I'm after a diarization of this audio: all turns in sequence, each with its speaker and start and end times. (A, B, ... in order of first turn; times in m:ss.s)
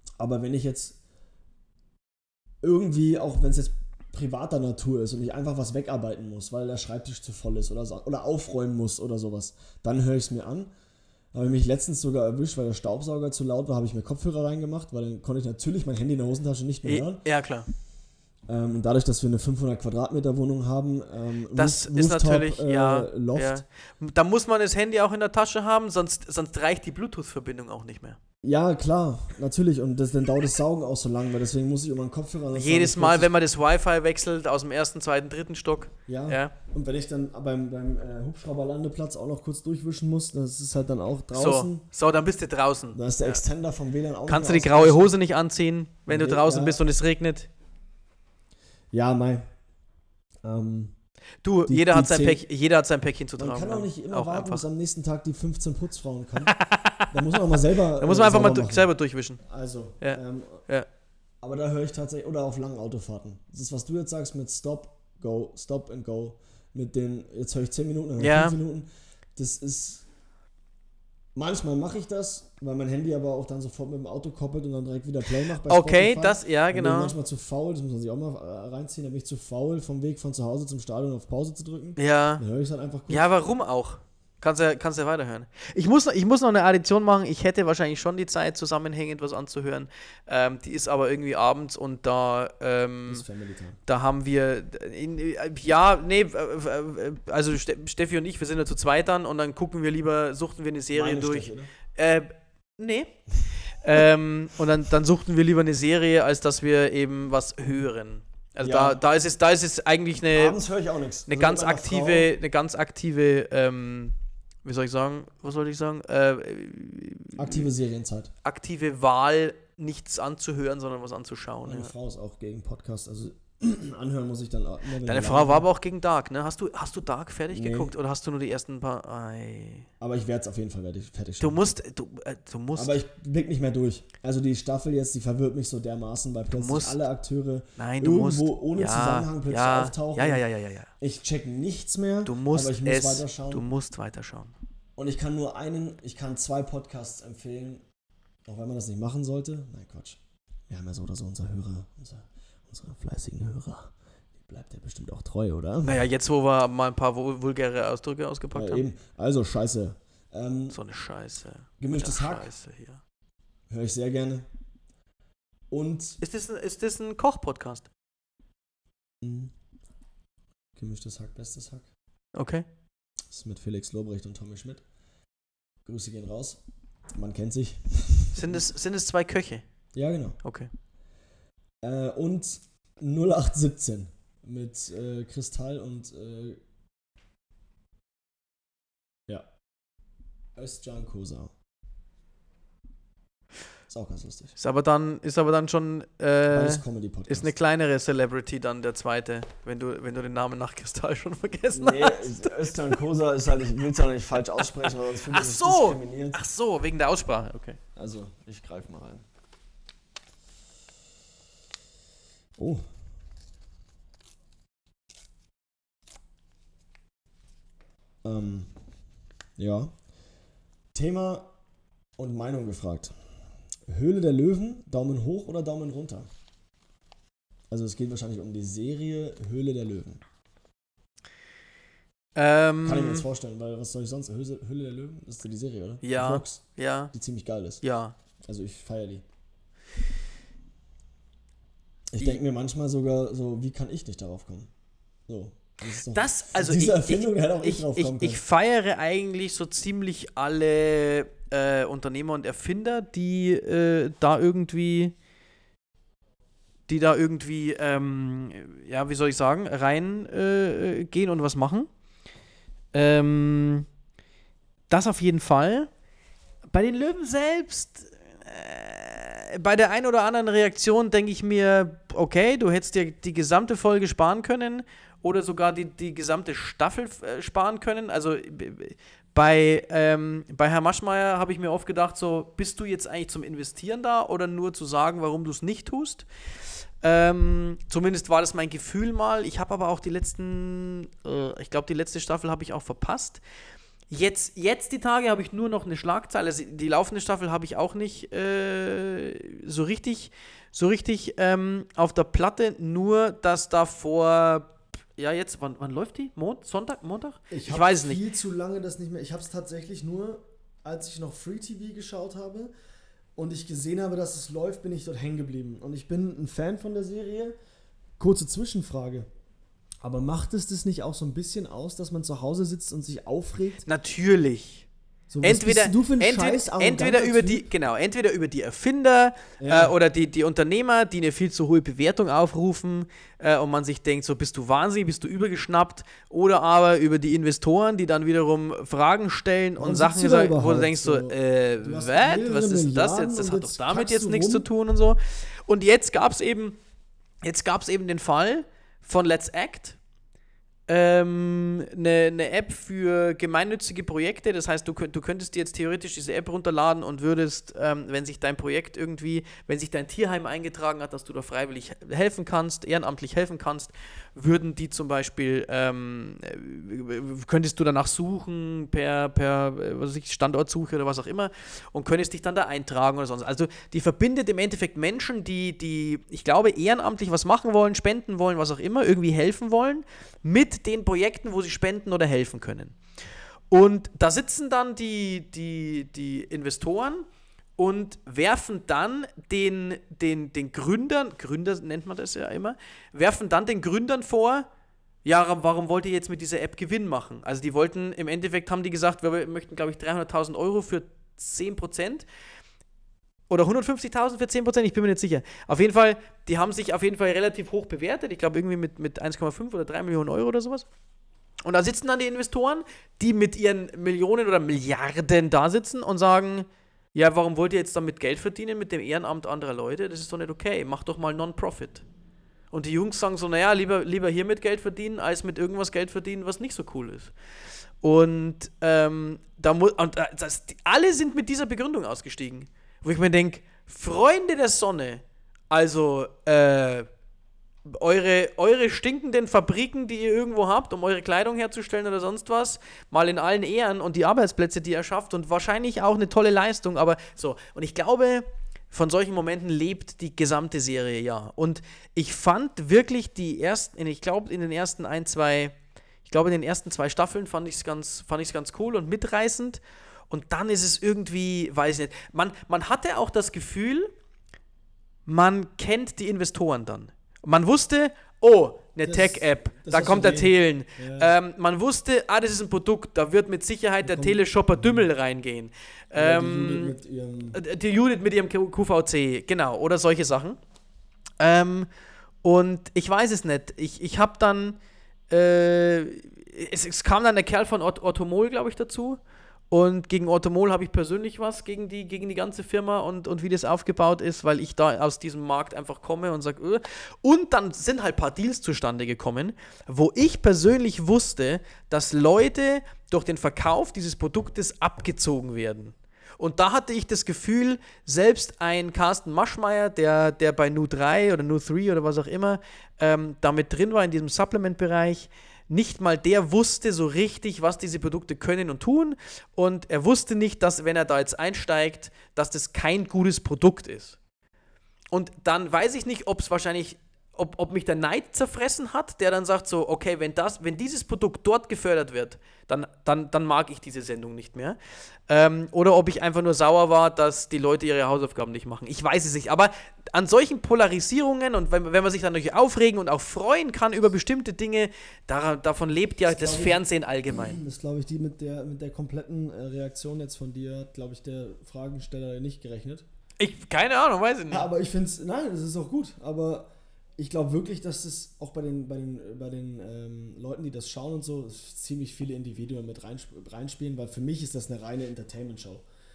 0:00.2-0:01.0 A
0:02.6-0:10.7 A
0:11.3-0:17.3 A
0:16.8-0:17.7 B
0:18.5-0:23.6 A
0:21.6-0:28.2 B
0:28.4-0:33.3 A
0:32.5-0:36.5 B
0:36.1-0:41.9 A
0:41.4-0:43.4 B
0:42.9-0:45.1 A
0:44.3-0:47.5 B
0:46.1-0:46.8 A
0:48.9-0:49.5 A
0:50.4-0:50.9 A
0:51.4-0:54.6 B
0:51.7-0:52.4 A
0:53.4-0:56.6 A
0:56.5-0:57.4 B
0:57.1-0:58.9 A
0:58.0-0:59.4 B
0:59.4-1:00.7 A
1:00.0-1:00.9 B
1:01.4-1:10.1 A
1:08.2-1:08.6 B
1:11.4-1:23.3 A
1:15.7-1:17.1 B
1:22.0-1:22.4 B
1:23.1-1:33.2 B
1:33.1-1:33.8 A
1:33.9-1:50.6 B
1:40.9-1:41.7 A
1:48.6-1:49.0 A
1:50.3-1:52.3 A
1:51.3-1:57.7 B
1:57.3-1:58.3 A
1:58.4-2:01.9 B
2:01.6-2:05.7 A
2:05.0-2:09.9 B
2:07.5-2:07.9 A
2:10.0-2:11.7 A
2:11.4-2:13.0 B
2:12.8-2:20.4 A
2:16.5-2:17.0 B
2:17.8-2:20.9 B
2:21.0-2:23.6 A
2:22.3-2:24.6 B
2:25.0-2:27.8 A
2:28.5-2:36.0 A
2:35.8-2:38.8 B
2:38.5-2:40.8 A
2:40.7-2:43.0 B
2:41.8-2:42.5 A
2:43.7-2:44.5 A
2:45.7-2:46.2 A
2:46.2-2:47.9 B
2:49.2-2:49.5 A
2:50.8-2:51.9 A
2:52.3-2:52.7 B
2:53.3-2:54.8 A
2:55.8-2:56.6 A
2:57.2-2:58.6 A
2:58.4-2:59.6 B
3:00.0-3:00.4 A
3:00.4-3:00.7 B
3:01.8-3:06.6 A
3:10.6-3:11.5 A
3:13.9-3:14.6 A
3:14.6-3:22.7 B
3:16.5-3:17.5 A
3:21.7-3:26.4 A
3:24.8-3:27.8 B
3:28.0-3:29.2 A
3:38.2-3:38.7 A
3:39.6-3:39.9 A
3:40.9-3:41.5 A
3:42.2-3:43.1 A
3:43.9-3:46.3 A
3:47.7-3:50.2 A
3:52.4-3:53.3 B
3:52.8-3:57.8 A
3:56.0-3:57.1 B
3:57.8-3:58.2 B
3:58.4-3:59.2 A
4:02.1-4:04.7 A
4:05.3-4:08.4 A
4:06.1-4:15.2 B
4:16.9-4:21.9 B
4:22.9-4:23.9 B
4:24.9-4:25.9 B
4:26.7-4:46.3 B
4:47.0-4:53.4 B
4:54.1-5:08.2 B
5:07.5-5:12.7 A
5:13.4-5:17.6 A
5:18.2-5:19.3 A
5:20.0-5:23.9 A
5:23.9-5:24.9 B
5:25.3-5:27.7 A
5:25.4-5:46.8 B
5:29.6-5:30.0 A
5:39.8-5:44.7 A
5:47.4-5:50.0 B
5:50.9-6:23.0 B
6:23.7-6:27.3 B
6:27.8-6:34.7 B
6:35.2-6:42.3 B
6:43.5-6:50.9 B
6:51.6-7:02.0 B
7:02.7-7:07.3 B
7:08.0-7:17.1 B
7:17.9-7:44.1 B
7:45.3-7:57.0 B
7:49.0-7:51.3 A
7:54.0-7:55.1 A
7:56.2-7:57.6 A
7:57.5-8:00.6 B
8:01.4-8:01.9 B
8:02.4-8:04.8 B
8:05.3-8:44.2 B
8:45.1-9:07.6 B
9:06.3-9:13.1 A
9:13.4-9:14.7 B
9:14.5-9:25.8 A